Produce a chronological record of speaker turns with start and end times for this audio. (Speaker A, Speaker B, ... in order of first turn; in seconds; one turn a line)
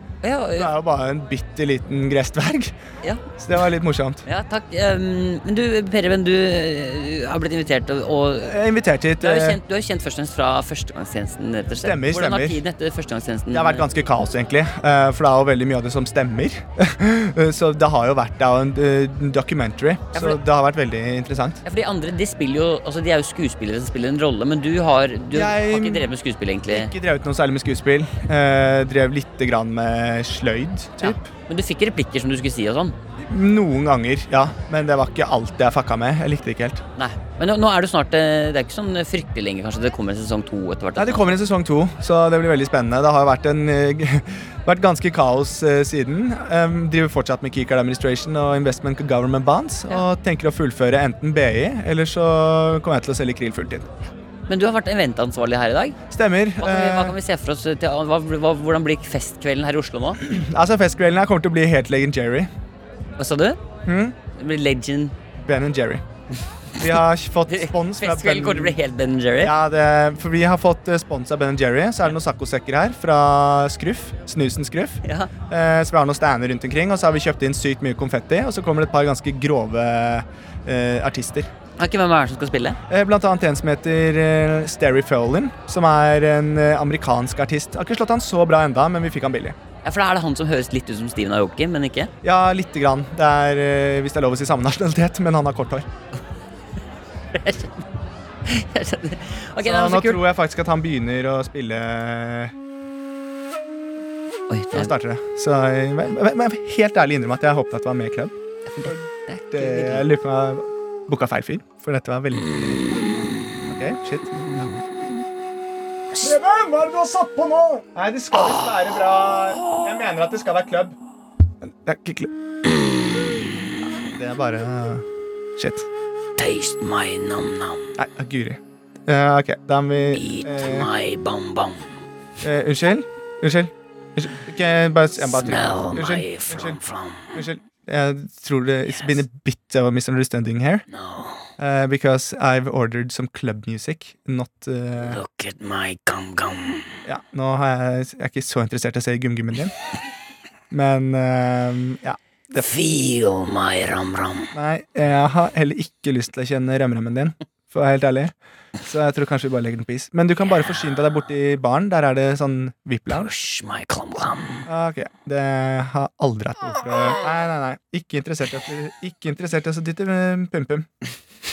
Speaker A: 0.2-0.7
Speaker B: 0.5-2.8
Speaker B: 3.4-4.2
Speaker A: 4.2-8.6
Speaker B: 8.4-9.6
Speaker A: 9.2-13.9
Speaker B: 11.8-12.6
Speaker B: 13.5-21.6
Speaker A: 20.1-20.4
Speaker A: 21.6-26.9
Speaker B: 25.3-26.1
Speaker B: 26.7-31.3
Speaker A: 31.0-33.0
Speaker B: 33.2-36.8
Speaker A: 37.0-41.4
Speaker B: 41.0-53.9
Speaker A: 54.5-56.0
Speaker B: 56.1-57.2
Speaker A: 56.6-60.2
Speaker B: 60.2-62.5
Speaker A: 63.2-63.6
Speaker B: 63.9-64.1
Speaker A: 64.3-65.1
Speaker B: 65.5-66.0
Speaker B: 66.8-68.8
Speaker A: 67.5-69.5
Speaker B: 69.4-81.5
Speaker A: 75.0-75.3
Speaker A: 81.8-82.8
Speaker B: 82.9-89.6
Speaker A: 89.8-92.1
Speaker B: 92.2-95.9
Speaker A: 97.3-97.8
Speaker A: 98.4-100.2
Speaker B: 99.6-102.5
Speaker A: 104.5-104.9
Speaker B: 104.7-113.0
Speaker A: 108.7-110.1
Speaker A: 112.8-113.5
Speaker B: 113.7-114.6
Speaker A: 114.4-114.8
Speaker B: 116.2-120.9
Speaker B: 121.6-122.3
Speaker A: 122.7-123.7
Speaker B: 124.0-125.0
Speaker B: 125.6-125.9
Speaker A: 126.4-127.9
Speaker B: 128.0-130.9
Speaker A: 130.1-131.9
Speaker B: 132.4-136.8
Speaker A: 135.3-137.4
Speaker B: 137.3-140.8
Speaker A: 138.9-139.2
Speaker A: 140.9-141.4
Speaker B: 141.6-145.2
Speaker A: 145.0-147.0
Speaker B: 147.0-149.7
Speaker B: 150.7-152.7
Speaker A: 152.5-154.5
Speaker B: 154.5-163.3
Speaker A: 163.1-164.7
Speaker B: 164.7-170.9